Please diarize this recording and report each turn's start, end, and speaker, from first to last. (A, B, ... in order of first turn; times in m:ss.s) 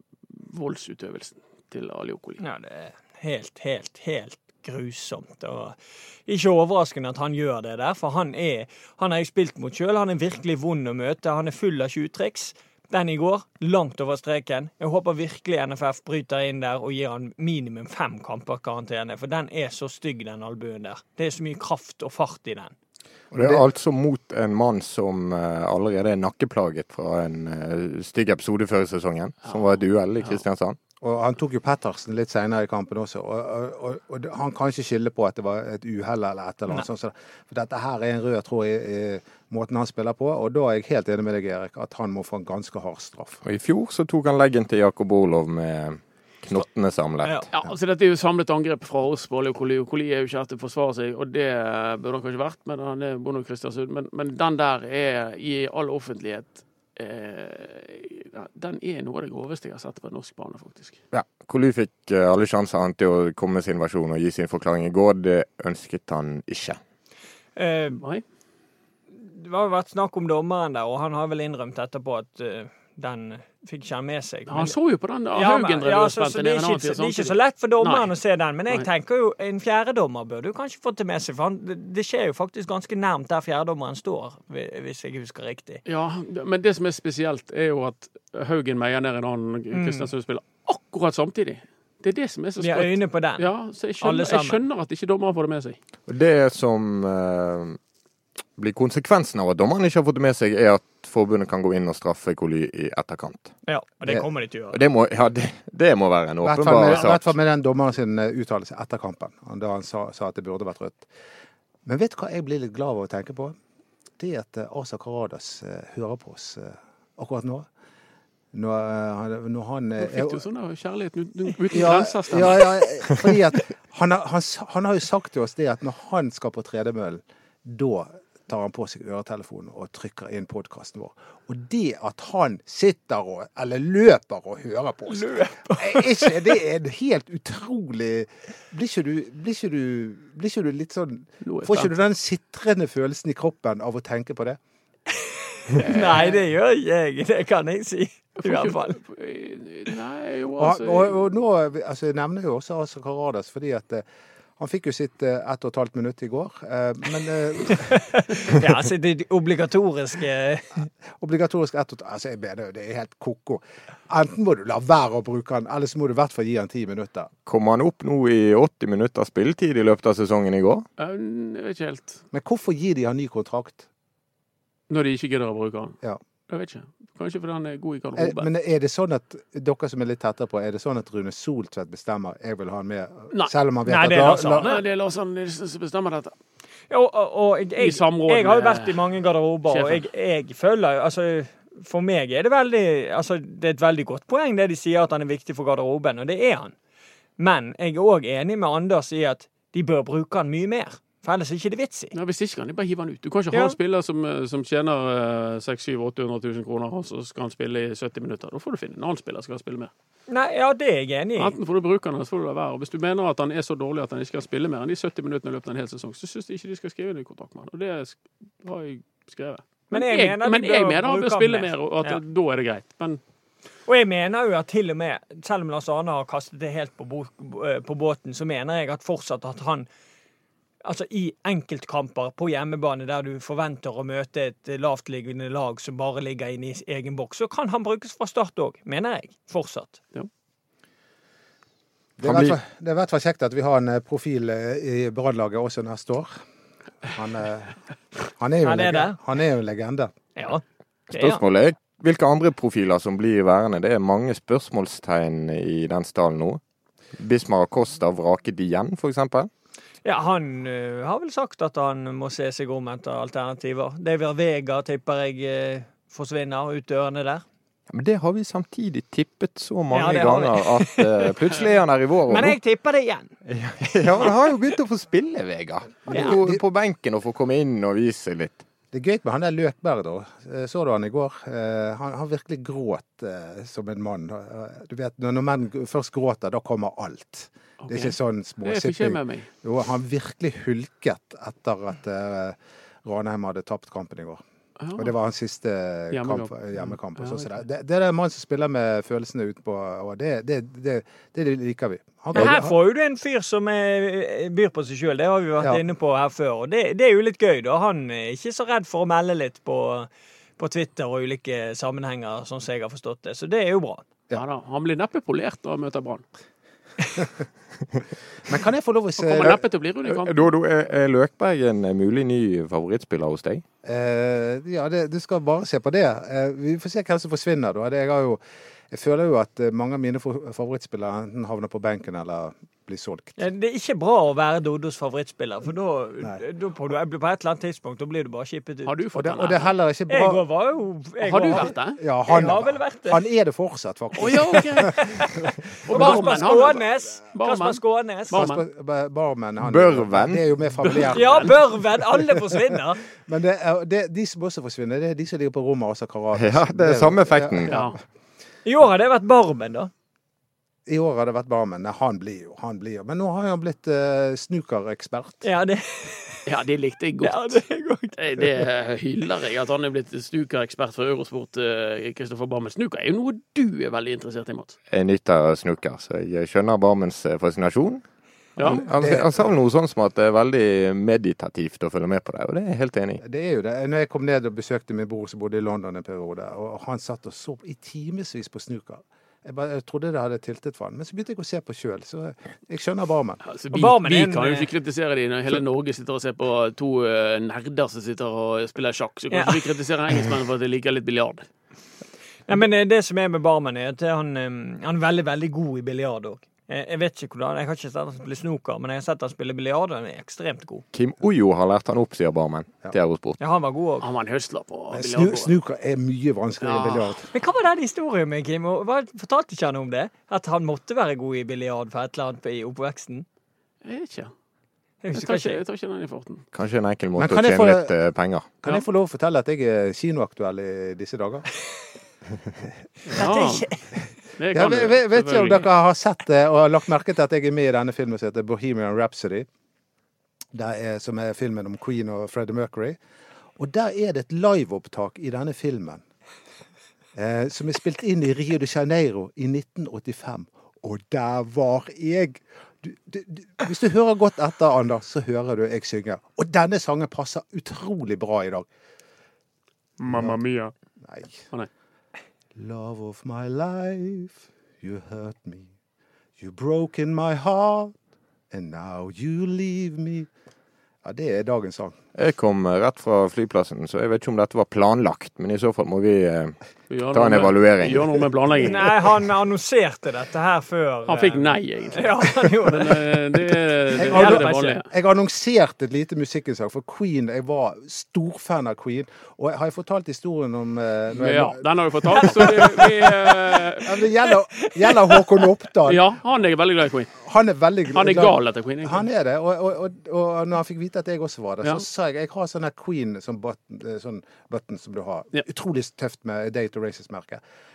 0:00.3-0:02.4 A
0:02.4-0:22.7 B
0:23.3-0:23.6 C
0:23.3-0:30.8 D
0:31.0-0:43.4 C
0:43.4-0:47.4 D
0:47.2-0:47.5 B
0:47.5-1:01.0 A
1:01.1-1:06.8 D
1:07.6-1:08.0 B
1:07.9-1:08.2 A
1:09.2-1:14.8 B
1:14.5-1:18.1 A
1:15.3-1:25.8 B
1:25.9-1:35.8 A
1:29.7-1:30.1 B
1:32.6-1:33.5 B
1:34.0-1:34.6 B
1:36.1-1:37.8 D
1:38.6-1:43.5 D
1:43.7-1:44.8 B
1:44.7-1:47.3 D
1:46.4-1:51.1 C
1:51.8-1:53.6 C
1:54.2-1:57.7 C
1:58.5-2:00.4 C
2:00.0-2:02.9 A
2:01.7-2:24.6 C
2:15.1-2:16.0 B
2:21.4-2:21.9 A
2:25.7-2:29.0 B
2:25.8-2:26.4 A
2:28.4-2:31.2 A
2:30.6-2:34.1 C
2:34.6-2:38.1 C
2:37.9-2:40.9 B
2:41.2-2:47.3 C
2:47.5-2:50.9 D
2:51.0-2:52.2 A
2:52.3-2:53.9 C
2:54.9-2:56.0 A
2:56.5-2:58.5 A
2:58.2-3:04.8 C
3:03.9-3:04.8 B
3:04.5-3:06.3 A
3:06.9-3:16.8 B
3:07.8-3:09.0 A
3:09.7-3:10.0 A
3:17.4-3:22.2 B
3:22.1-3:29.9 A
3:30.3-3:31.6 B
3:31.4-3:43.2 A
3:39.9-3:42.2 B
3:43.9-3:49.9 B
3:50.8-4:00.0 B
4:02.2-4:06.4 C
4:02.2-4:02.6 D
4:07.1-4:07.8 C
4:08.3-4:10.1 C
4:08.6-4:09.2 B
4:10.4-4:11.4 B
4:11.1-4:16.6 D
4:17.2-4:19.5 D
4:20.0-4:27.4 B
4:27.9-4:32.6 D
4:29.9-4:31.6 B
4:32.3-4:33.3 B
4:33.4-4:38.6 D
4:36.1-4:36.6 C
4:36.1-4:36.4 B
4:38.9-4:54.4 C
4:47.8-4:49.5 A
4:54.8-4:55.1 A
4:55.0-5:02.8 C
4:56.1-4:57.6 A
5:02.3-5:14.0 B
5:14.3-5:16.2 A
5:18.5-5:19.6 C
5:19.2-5:20.5 A
5:20.1-5:23.6 D
5:23.8-5:33.4 C
5:33.4-5:39.0 B
5:38.8-5:39.7 A
5:39.2-5:40.4 C
5:40.1-5:43.2 B
5:41.2-5:42.0 A
5:41.6-5:46.2 C
5:44.2-5:45.3 A
5:44.8-5:48.4 B
5:45.9-5:48.6 A
5:48.3-5:52.6 C
5:49.6-5:50.5 D
5:50.8-5:51.5 A
5:51.1-5:53.0 B
5:53.2-5:58.0 C
5:56.3-5:57.7 D
5:57.7-5:58.0 A
5:58.6-5:59.9 B
6:00.9-6:05.4 C
6:05.4-6:06.5 B
6:06.5-6:07.6 A
6:07.2-6:08.2 B
6:08.2-6:14.8 A
6:14.9-6:18.0 D
6:18.6-6:18.8 A
6:18.6-6:23.2 D
6:18.7-6:19.4 C
6:23.2-6:33.4 C
6:33.4-6:41.4 A
6:33.7-6:34.7 B
6:39.3-6:39.6 B
6:42.5-6:50.8 B
6:50.9-6:53.4 D
6:53.4-6:54.1 B
6:54.0-6:55.6 A
6:54.9-6:57.3 C
6:56.6-6:57.2 A
6:57.3-7:03.3 B
7:03.8-7:04.3 A
7:05.0-7:05.6 B
7:05.1-7:06.5 A
7:06.5-7:08.5 D
7:07.2-7:07.9 C
7:08.6-7:11.5 C
7:13.1-7:13.7 A
7:13.1-7:13.8 B
7:14.4-7:15.7 A
7:14.5-7:19.5 C
7:20.5-7:23.0 C
7:23.6-7:26.0 C
7:27.2-7:38.7 C
7:40.0-7:40.7 A
7:40.1-7:40.4 C
7:41.0-7:41.5 C
7:42.6-7:45.7 C
7:46.4-7:48.0 C
7:48.5-7:50.3 C
7:51.0-7:52.0 C
7:52.2-7:56.6 D
7:56.9-7:59.1 A
7:57.1-7:58.2 D
7:58.6-8:03.2 B
8:01.1-8:04.9 A
8:03.9-8:04.8 B
8:04.0-8:16.1 C
8:11.1-8:14.0 A
8:12.3-8:12.8 B
8:14.6-8:15.1 B
8:15.8-8:17.2 A
8:17.2-8:27.4 C
8:17.9-8:19.0 A